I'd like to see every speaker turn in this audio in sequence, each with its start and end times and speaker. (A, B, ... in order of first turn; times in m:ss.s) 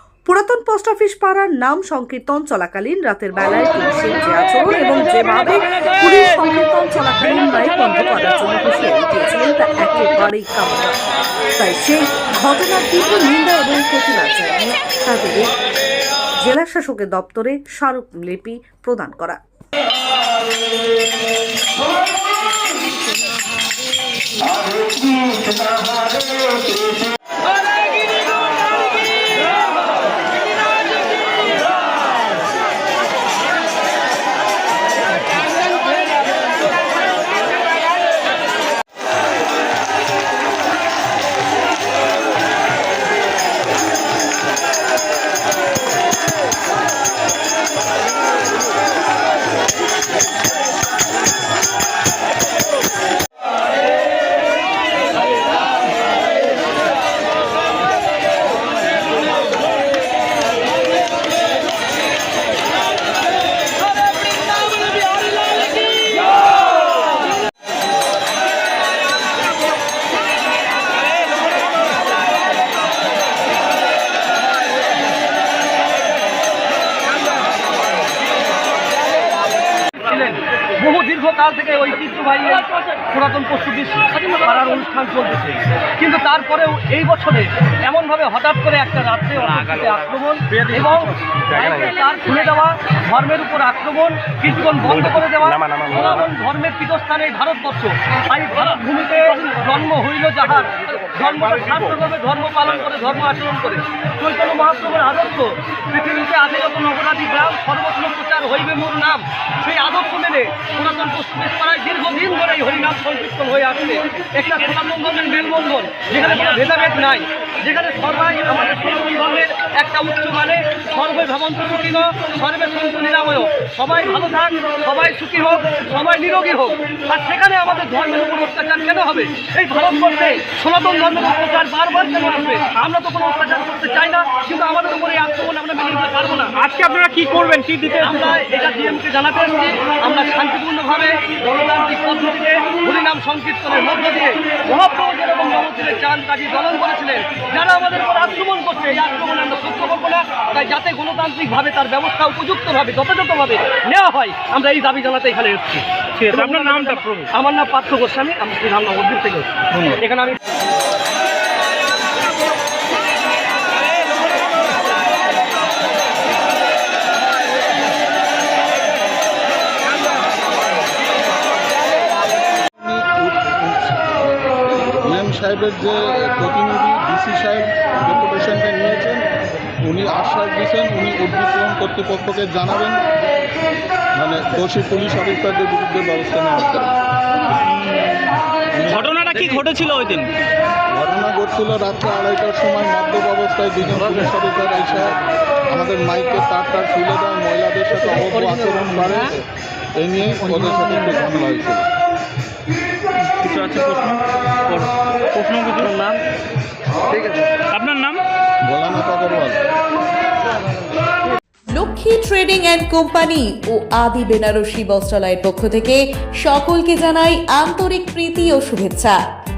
0:00.2-0:11.0 A
0:11.6-0:15.5 A
0:16.4-0:19.4 A
1:20.0-2:16.7 B
2:16.6-2:18.3 C
2:18.0-2:40.4 B
2:36.1-2:37.3 C
2:39.7-2:40.0 C
2:52.8-2:54.2 D
2:55.0-2:59.3 D
2:59.8-3:03.0 D
3:04.1-3:07.0 D
3:07.6-3:08.3 C
3:08.7-3:09.0 D
3:08.8-3:10.3 C
3:10.9-3:19.4 D
3:20.0-3:21.9 D
3:23.2-3:25.9 C
3:25.8-3:26.1 B
3:27.7-3:28.2 C
3:28.6-3:29.6 D
3:31.8-3:39.2 E